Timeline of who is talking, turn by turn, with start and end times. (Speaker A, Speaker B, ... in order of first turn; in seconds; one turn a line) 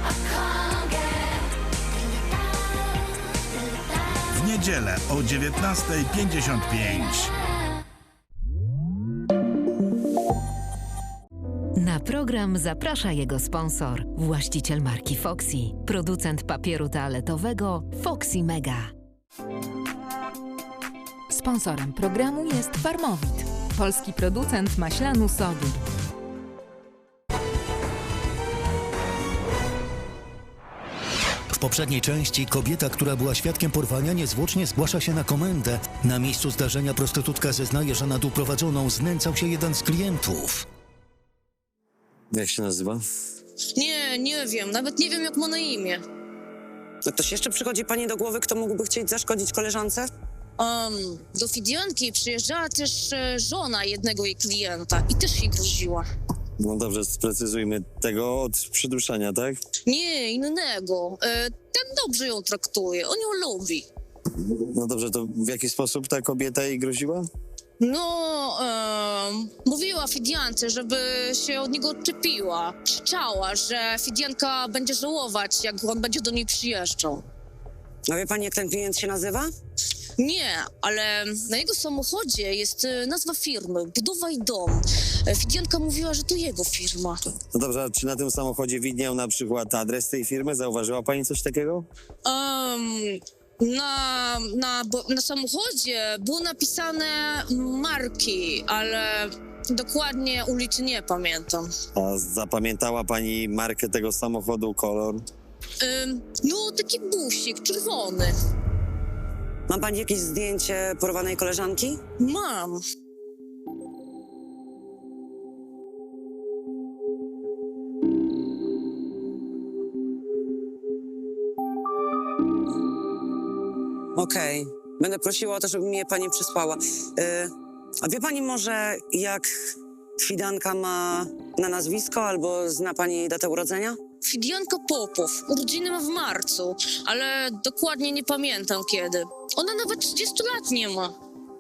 Speaker A: 4.4-7.3
Speaker B: 11.8-18.8
Speaker C: 21.3-25.8
Speaker D: 31.5-40.6
Speaker E: 42.3-43.0
Speaker F: 43.8-46.0
Speaker G: 47.0-50.1
Speaker F: 50.6-56.0
Speaker E: 56.6-59.6
Speaker F: 59.9-63.8
Speaker E: 64.7-67.2
Speaker F: 67.8-77.2
Speaker G: 78.1-79.5
Speaker F: 80.2-87.2
Speaker E: 87.5-91.8
Speaker F: 92.2-101.7
Speaker E: 102.0-105.2
Speaker F: 105.8-108.3
Speaker G: 109.7-112.0
Speaker F: 112.2-112.8
Speaker G: 124.2-127.5
Speaker G: 128.0-129.5
Speaker G: 130.2-134.0
Speaker F: 134.2-141.1